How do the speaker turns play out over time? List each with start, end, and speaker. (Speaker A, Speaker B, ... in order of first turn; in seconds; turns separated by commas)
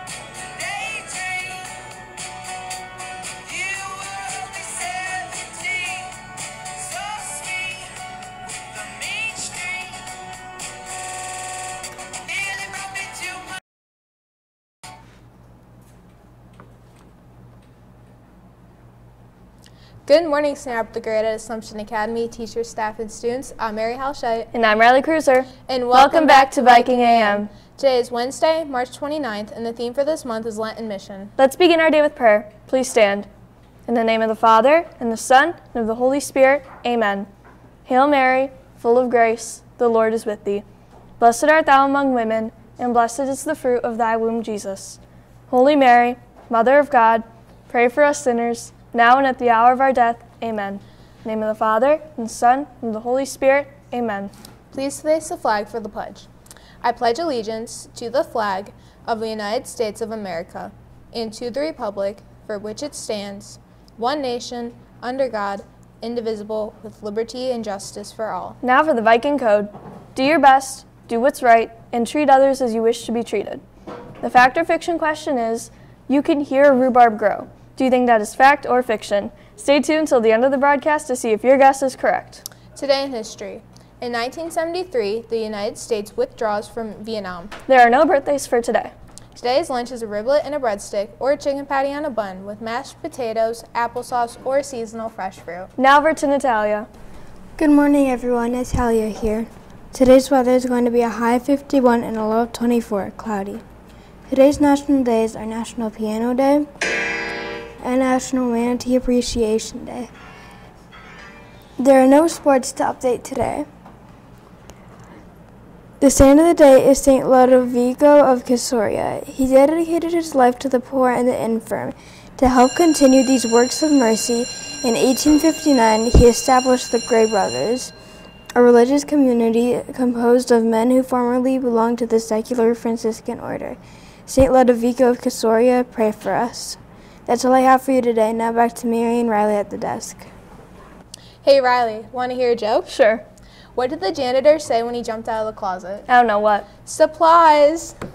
Speaker A: 0.6-1.6, Speaker A: 3.5-6.1, Speaker A: 6.8-7.9, Speaker A: 8.8-9.9, Speaker A: 12.4-13.4, Speaker B: 20.1-24.5, Speaker A: 24.5-27.5, Speaker B: 25.7-31.3, Speaker A: 31.4-33.3, Speaker A: 33.9-37.3, Speaker A: 37.9-40.6, Speaker A: 41.2-54.3, Speaker B: 54.7-56.3, Speaker B: 56.8-68.6, Speaker A: 68.6-73.6, Speaker A: 74.2-82.4, Speaker B: 82.7-87.5, Speaker A: 87.7-88.9, Speaker B: 89.3-95.7, Speaker A: 95.8-96.9, Speaker C: 97.6-103.6, Speaker C: 104.3-106.7, Speaker C: 107.8-110.1, Speaker C: 111.8-113.7, Speaker C: 116.0-127.9, Speaker C: 128.6-140.3, Speaker B: 141.4-142.9, Speaker A: 142.9-143.2, Speaker B: 143.8-146.1, Speaker A: 146.1-146.7, Speaker B: 146.8-148.0